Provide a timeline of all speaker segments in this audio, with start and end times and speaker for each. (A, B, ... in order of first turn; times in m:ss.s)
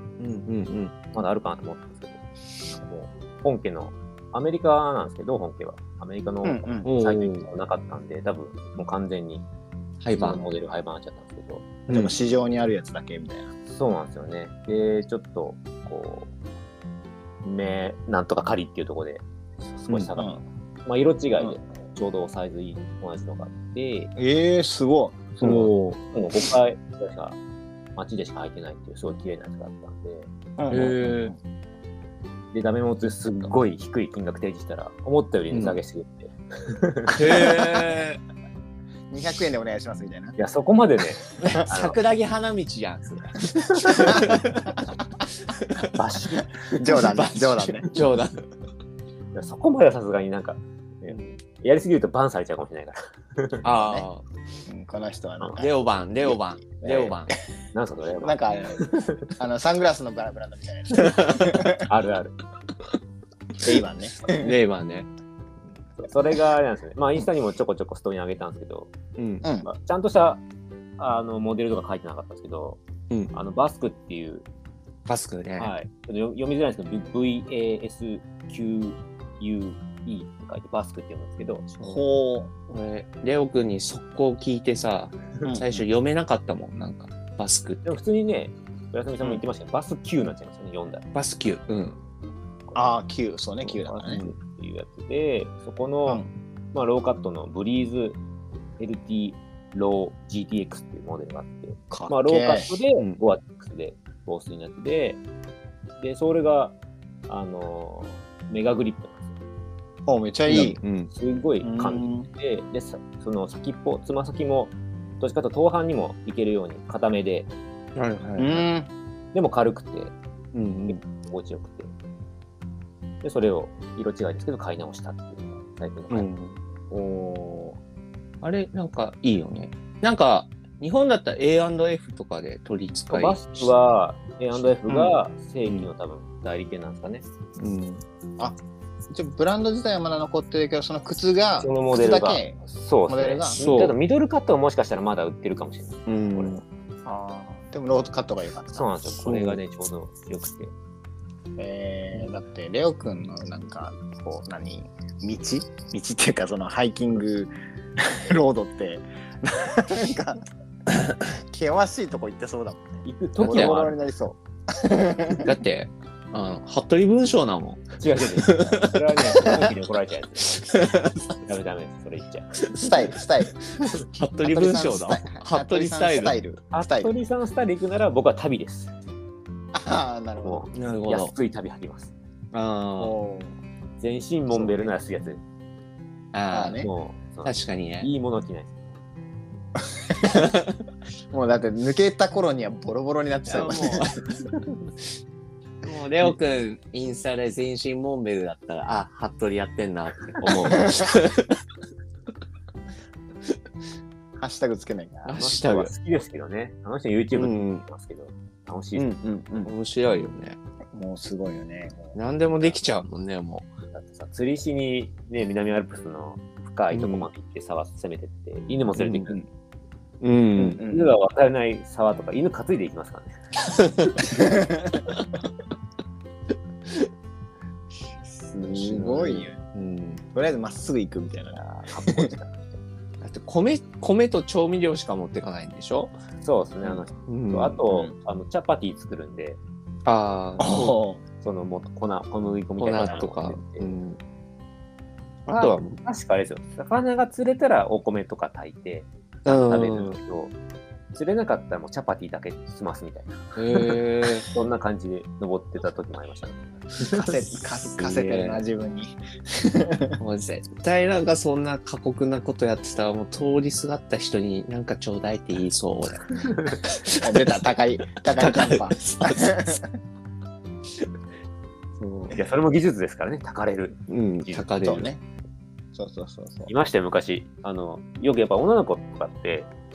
0:00.2-0:00.9 A
0:01.1-0:09.4 B
0:06.4-0:06.9 C
0:06.8-0:07.5 A
0:10.0-0:10.4 A
0:10.2-0:11.8 B
0:11.9-0:12.1 A
0:11.9-0:13.5 C
0:13.7-0:16.3 B
0:17.4-0:20.3 B
0:20.8-0:24.1 B
0:24.2-0:25.7 C
0:25.4-0:27.4 B
0:25.4-0:25.7 A
0:28.0-0:30.3 B
0:30.6-0:31.4 C
0:30.7-0:31.3 A
0:32.5-0:37.6 B
0:35.5-0:35.8 A
0:37.1-0:38.2 A
0:37.3-0:37.8 C
0:39.1-0:40.4 C
0:40.4-0:42.0 B
0:41.4-0:44.7 A
0:43.8-0:44.3 B
0:44.0-0:44.4 C
0:45.6-0:45.9 A
0:45.8-0:47.2 B
0:46.7-0:47.9 C
0:46.9-0:48.4 A
0:49.3-0:53.6 B
0:53.6-0:54.2 A
0:53.7-0:54.1 C
0:54.7-0:57.3 C
0:55.6-0:57.3 A
0:57.7-0:59.3 B
0:58.2-1:01.8 C
1:01.0-1:01.4 A
1:01.8-1:02.4 B
1:03.6-1:04.5 C
1:04.3-1:05.1 A
1:06.0-1:08.9 B
1:09.2-1:09.4 A
1:09.4-1:09.7 C
1:09.6-1:10.4 B
1:11.0-1:12.8 B
1:13.3-1:14.4 B
1:15.1-1:15.7 A
1:15.6-1:21.7 B
1:21.8-1:22.5 C
1:22.7-1:27.9 A
1:25.4-1:25.8 C
1:27.8-1:31.0 B
1:31.1-1:32.0 A
1:32.7-1:34.2 C
1:33.6-1:36.2 B
1:34.0-1:34.3 A
1:36.7-1:38.2 B
1:38.8-1:45.2 B
1:41.9-1:42.7 C
1:43.0-1:43.2 A
1:46.0-1:46.8 B
1:47.3-1:49.3 B
1:50.0-1:50.8 C
1:50.5-1:51.1 A
1:51.1-1:57.5 B
1:51.6-1:52.3 C
1:57.9-1:58.6 A
1:58.4-1:58.9 C
1:59.3-2:00.1 B
2:00.5-2:01.0 A
2:00.8-2:01.9 B
2:03.2-2:06.3 B
2:06.1-2:06.6 A
2:06.9-2:07.8 C
2:08.4-2:13.9 A
2:13.1-2:17.2 B
2:15.6-2:15.9 A
2:17.6-2:18.0 A
2:19.1-2:23.6 C
2:21.6-2:26.6 B
2:23.6-2:24.0 A
2:26.1-2:26.6 A
2:27.0-2:28.9 C
2:28.7-2:30.7 B
2:29.2-2:29.6 A
2:31.6-2:40.4 C
2:41.0-2:45.5 C
2:43.0-2:44.0 B
2:43.4-2:43.8 A
2:45.4-2:49.4 A
2:48.0-2:50.6 B
2:50.5-2:51.3 A
2:51.4-2:52.5 B
2:52.6-2:53.0 A
2:52.7-2:53.5 C
2:54.0-2:56.4 A
2:54.4-2:57.1 C
2:56.7-2:58.9 B
2:59.7-3:00.6 C
3:00.4-3:02.1 B
3:00.7-3:01.3 A
3:02.5-3:03.1 A
3:03.0-3:03.6 C
3:04.0-3:05.4 B
3:04.5-3:04.8 C
3:06.3-3:06.8 A
3:06.5-3:06.9 C
3:06.8-3:08.9 B
3:07.4-3:08.1 A
3:10.1-3:10.5 C
3:11.3-3:14.2 C
3:13.5-3:14.3 A
3:15.8-3:21.6 A
3:24.4-3:25.3 C
3:25.2-3:25.9 A
3:25.3-3:29.2 B
3:27.3-3:27.8 A
3:29.0-3:30.6 A
3:29.2-3:29.7 C
3:30.9-3:32.8 C
3:32.1-3:33.7 A
3:33.9-3:39.4 B
3:36.9-3:37.3 A
3:39.0-3:39.4 A
3:40.2-3:40.8 A
3:40.6-3:41.1 C
3:40.6-3:43.3 B
3:44.0-3:44.2 A
3:44.2-3:45.0 C
3:48.3-3:49.6 C
3:48.6-3:50.2 A
3:50.3-3:52.3 C
3:51.5-3:52.8 B
3:53.2-3:56.2 A
3:56.4-3:59.6 B
3:57.3-3:57.8 A
3:57.8-3:58.1 C
4:00.0-4:01.0 A
4:00.6-4:01.2 C
4:01.4-4:03.9 B
4:02.8-4:04.2 A
4:05.5-4:06.0 A
4:05.5-4:10.5 B
4:09.4-4:10.2 A
4:11.1-4:17.2 B
4:13.6-4:14.5 A
4:17.1-4:20.2 C
4:17.9-4:18.6 A
4:20.2-4:27.6 A
4:26.4-4:26.8 B
4:27.2-4:29.9 C
4:28.4-4:29.8 A
4:32.0-4:32.4 A
4:32.3-4:34.6 B
4:34.1-4:35.1 A
4:34.8-4:35.2 C
4:35.9-4:36.7 C
4:36.7-4:39.7 B